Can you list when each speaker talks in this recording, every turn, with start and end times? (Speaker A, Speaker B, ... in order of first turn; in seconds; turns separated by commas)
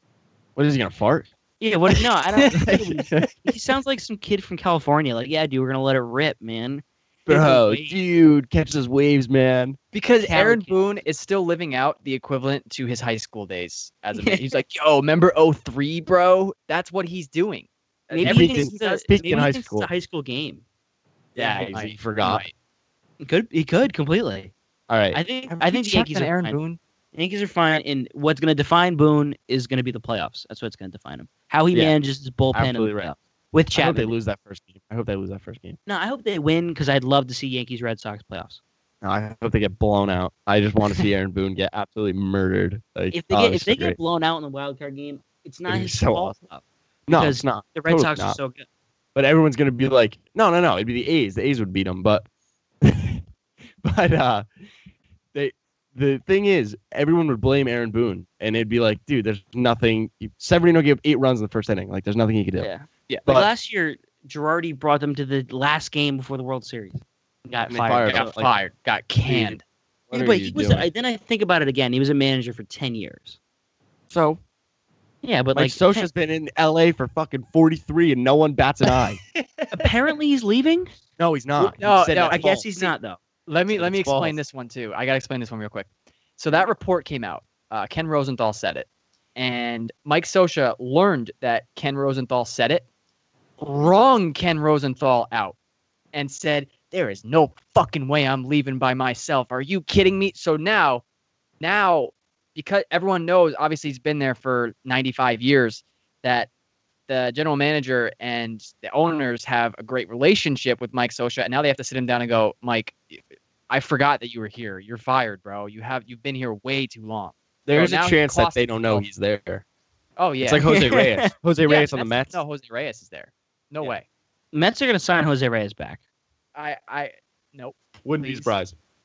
Speaker A: 0.6-1.3, Speaker B: 1.6-8.0, Speaker C: 2.5-3.3, Speaker A: 2.5-3.3, Speaker A: 7.3-9.8, Speaker C: 9.9-19.4, Speaker B: 10.2-10.8, Speaker B: 14.2-14.6, Speaker A: 18.1-19.9, Speaker B: 18.1-20.6, Speaker A: 21.4-22.4, Speaker C: 21.4-22.5, Speaker B: 23.2-24.5, Speaker A: 24.9-25.2, Speaker B: 25.1-26.6, Speaker C: 25.5-26.8, Speaker B: 27.1-34.2, Speaker A: 32.5-33.2, Speaker A: 33.8-35.8, Speaker B: 35.9-38.6, Speaker A: 39.0-44.0, Speaker B: 43.1-48.6, Speaker A: 45.7-46.4, Speaker A: 47.1-48.4, Speaker A: 49.1-52.2, Speaker A: 52.8-53.2, Speaker A: 53.8-54.5, Speaker A: 55.3-62.7, Speaker B: 62.6-68.3, Speaker A: 67.7-68.5, Speaker C: 68.1-69.6, Speaker A: 69.3-70.9, Speaker B: 70.1-73.4, Speaker A: 74.1-74.4, Speaker B: 75.2-76.1, Speaker A: 75.5-79.2, Speaker C: 78.8-79.7, Speaker B: 79.7-80.9, Speaker A: 81.2-82.7, Speaker C: 81.8-82.9, Speaker B: 82.3-83.2, Speaker C: 83.5-92.9, Speaker A: 83.7-84.4, Speaker C: 93.6-95.6, Speaker C: 96.1-101.0, Speaker C: 101.6-106.5, Speaker C: 107.1-119.1, Speaker A: 117.7-119.7, Speaker C: 120.2-120.8, Speaker A: 120.4-122.4, Speaker B: 120.7-121.3, Speaker C: 121.6-124.0, Speaker B: 124.5-126.0, Speaker C: 126.5-128.5, Speaker A: 128.1-128.7